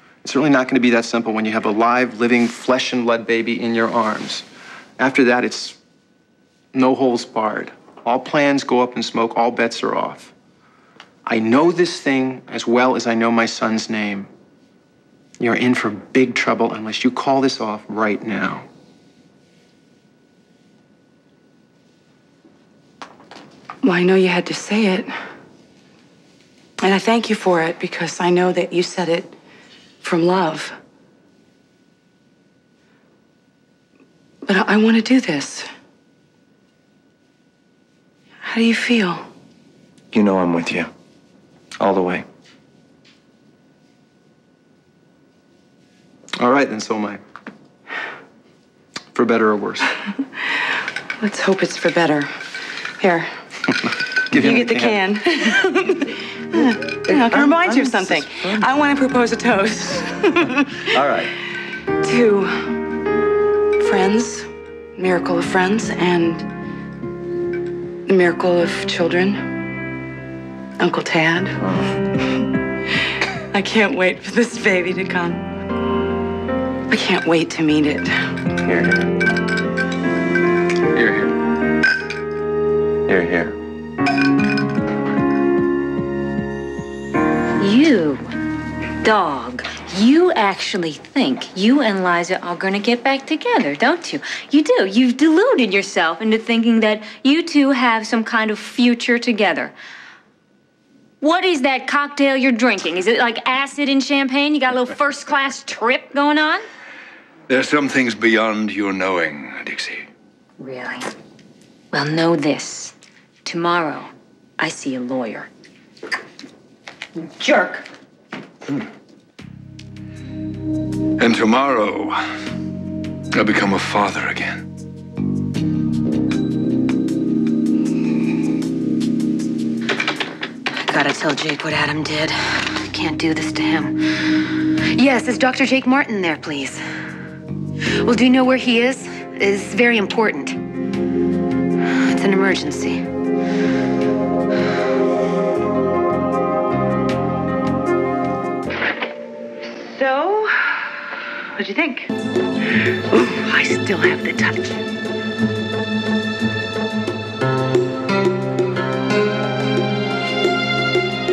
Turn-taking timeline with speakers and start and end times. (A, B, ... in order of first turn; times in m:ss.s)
0:00.2-0:04.4 A
0:05.0-0:05.8 A
0:06.7-0:10.3 A
0:11.3-0:14.3 A
0:15.4-0:18.7 A
0:23.8-0:25.1 B
0:26.8-0:29.3 B
0:30.0-0:30.8 B
0:34.4-0:35.7 B
0:38.5-0:39.2 B
0:40.1-0:40.9 C
0:41.8-0:42.2 C
0:46.4-0:47.2 A
0:49.1-0:49.9 A
0:51.2-0:52.3 B
0:53.0-0:53.3 B
0:53.8-0:55.0 A
0:54.4-1:01.0 B
0:57.1-0:58.8 C
1:00.9-1:01.3 C
1:02.0-1:02.8 B
1:03.8-1:04.5 B
1:05.0-1:06.5 B
1:08.1-1:09.5 B
1:10.8-1:11.6 B
1:13.5-1:15.4 B
1:16.9-1:18.1 B
1:18.7-1:19.1 C
1:23.1-1:23.5 C
1:27.6-1:28.2 D
1:29.0-1:39.7 D
1:41.2-1:46.6 D
1:47.5-1:50.1 E
1:50.6-1:51.1 D
1:51.9-1:52.9 D
1:53.4-1:55.5 D
1:57.4-1:57.8 D
2:01.2-2:02.2 E
2:03.3-2:04.6 E
2:10.7-2:14.1 F
2:14.9-2:16.8 F
2:18.0-2:20.6 F
2:22.1-2:23.1 F
2:29.8-2:30.5 B
2:31.6-2:32.1 B
2:33.1-2:34.6 B